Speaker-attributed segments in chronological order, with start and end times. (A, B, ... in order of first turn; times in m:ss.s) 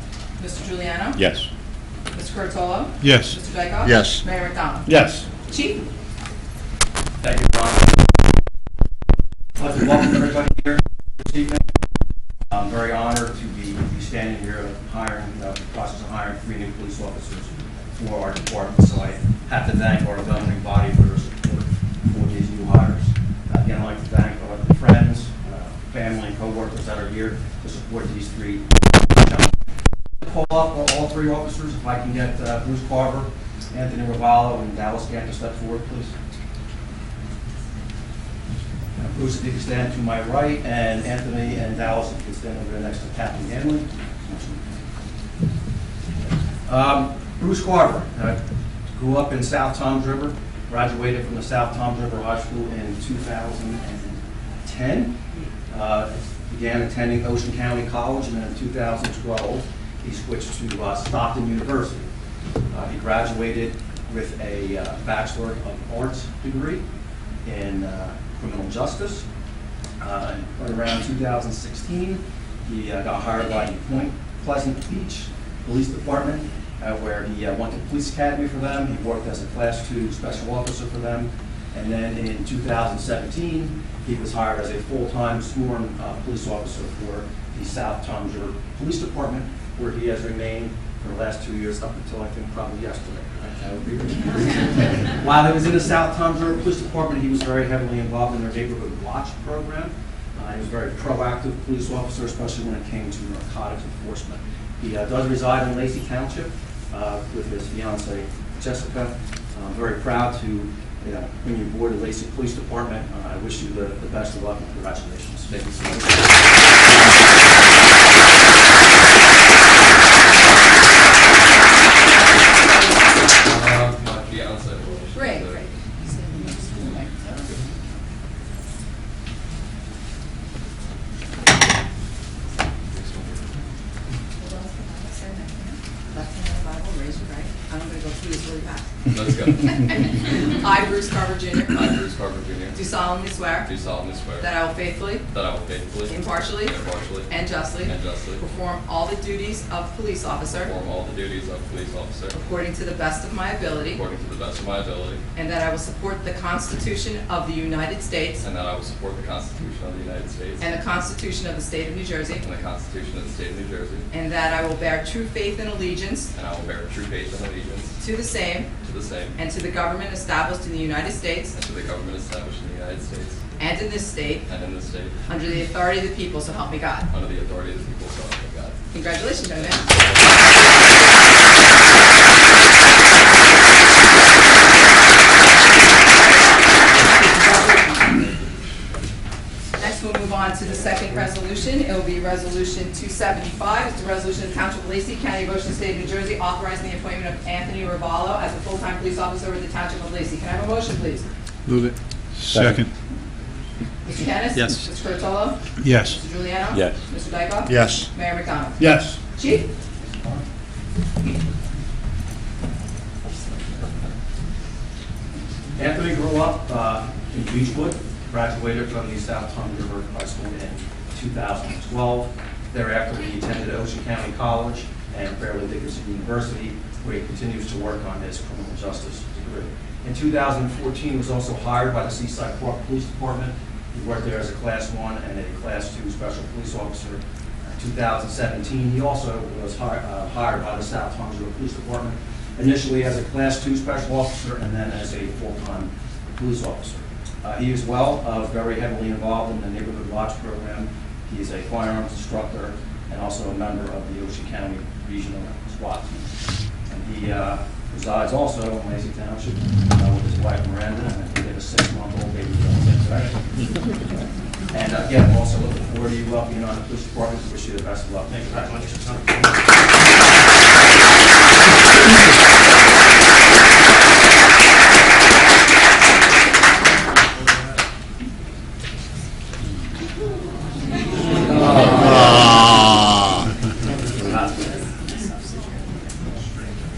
0:00.4-0:01.2 A
0:01.2-0:01.5 B
0:02.1-0:04.9 A
0:03.0-0:03.3 C
0:03.9-0:04.2 B
0:04.9-0:05.2 B
0:05.5-0:05.8 A
0:07.2-0:08.0 D
0:09.5-0:11.6 D
0:12.5-0:29.5 D
0:30.2-0:36.1 D
0:39.0-0:44.6 D
0:46.7-0:48.4 D
0:48.9-0:55.2 D
0:55.7-1:02.1 D
1:02.7-1:06.8 D
1:07.4-1:09.2 D
1:10.0-1:56.6 D
2:02.0-2:03.2 A
2:03.4-2:05.6 E
2:05.1-2:07.6 A
2:12.9-2:13.6 E
2:14.4-2:18.9 A
2:19.1-2:20.5 E
2:19.8-2:21.9 A
2:21.7-2:22.8 E
2:22.7-2:23.7 A
2:23.6-2:24.5 E
2:24.4-2:25.2 A
2:25.3-2:28.4 E
2:26.0-2:30.7 A
2:30.5-2:32.4 E
2:32.3-2:34.0 A
2:33.9-2:35.2 E
2:35.3-2:38.4 A
2:38.4-2:40.6 E
2:40.6-2:42.4 A
2:42.4-2:44.1 E
2:44.1-2:46.3 A
2:46.3-2:48.0 E
2:48.0-2:48.7 A
2:48.8-2:49.4 E
2:49.3-2:51.6 A
2:51.5-2:53.4 E
2:53.6-2:54.5 A
2:54.5-2:55.2 E
2:55.3-2:57.1 A
2:57.1-3:01.6 E
2:58.9-2:59.8 A
3:06.9-3:08.2 A
3:09.8-3:21.3 A
3:21.7-3:22.9 C
3:22.5-3:22.8 B
3:24.0-3:29.7 A
3:25.8-3:26.2 C
3:27.7-3:28.1 B
3:28.8-3:29.2 B
3:30.0-3:30.4 D
3:35.8-4:16.3 D
4:16.9-4:23.4 D
4:24.7-4:29.8 D
4:41.6-4:42.5 D